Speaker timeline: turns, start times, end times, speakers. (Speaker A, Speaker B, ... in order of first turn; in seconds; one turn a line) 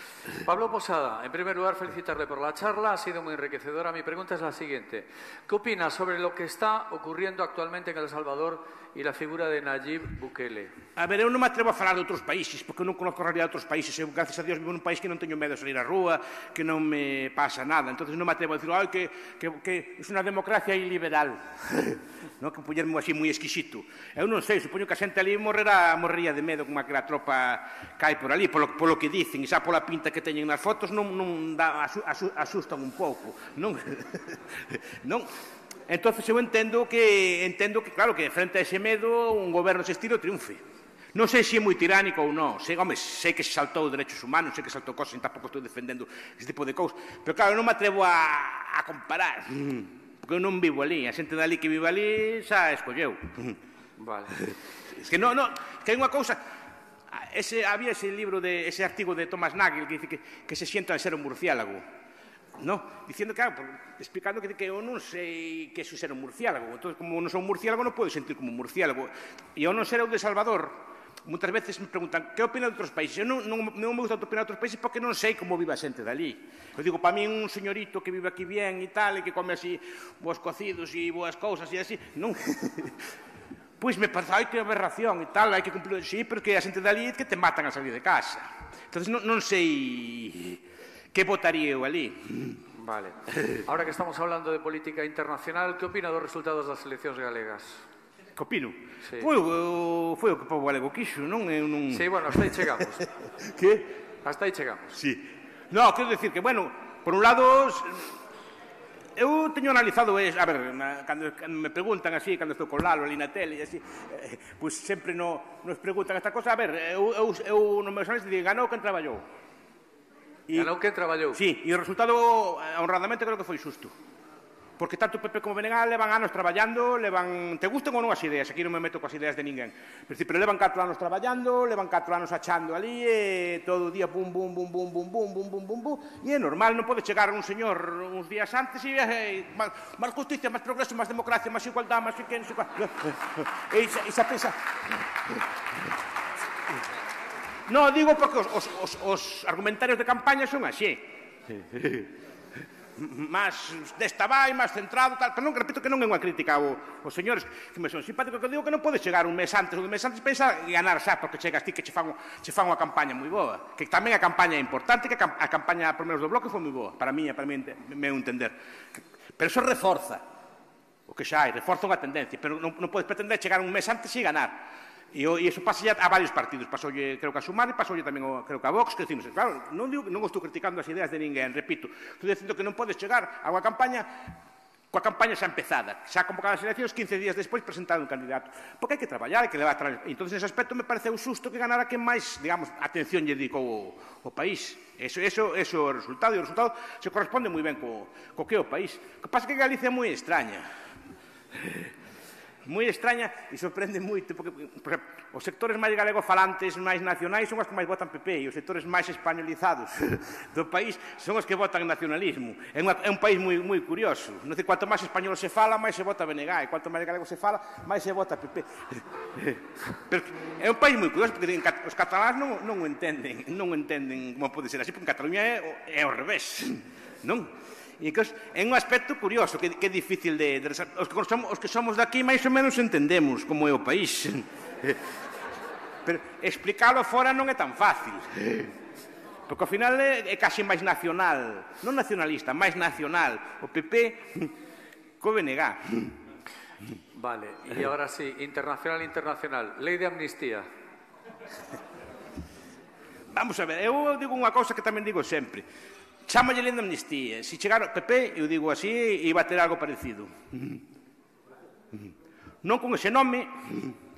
Speaker A: 0.4-10.7
Speaker B: 11.0-35.3
Speaker B: 35.9-40.6
Speaker B: 41.1-53.6
Speaker A: 54.0-54.4
Speaker B: 54.4-56.4
Speaker B: 57.1-61.8
Speaker B: 62.6-83.0
Speaker B: 83.8-90.6
Speaker B: 91.1-92.6
Speaker A: 92.7-97.9
Speaker B: 98.4-102.3
Speaker A: 101.9-103.1
Speaker B: 103.4-104.0
Speaker A: 104.2-105.0
Speaker B: 105.0-108.1
Speaker B: 109.2-119.2
Speaker A: 120.5-121.4
Speaker B: 121.3-123.9
Speaker B: 124.8-144.6
Speaker B: 147.7-152.1
Speaker B: 153.0-168.5
Speaker B: 169.4-170.2
Speaker B: 171.1-184.3
Speaker B: 184.9-200.7
Speaker B: 201.5-201.9
Speaker B: 202.6-235.0
Speaker B: 236.1-238.7
Speaker B: 239.5-244.5
Speaker B: 245.2-246.2
Speaker A: 247.1-250.7
Speaker B: 253.3-255.7
Speaker B: 256.3-260.8
Speaker B: 262.6-264.0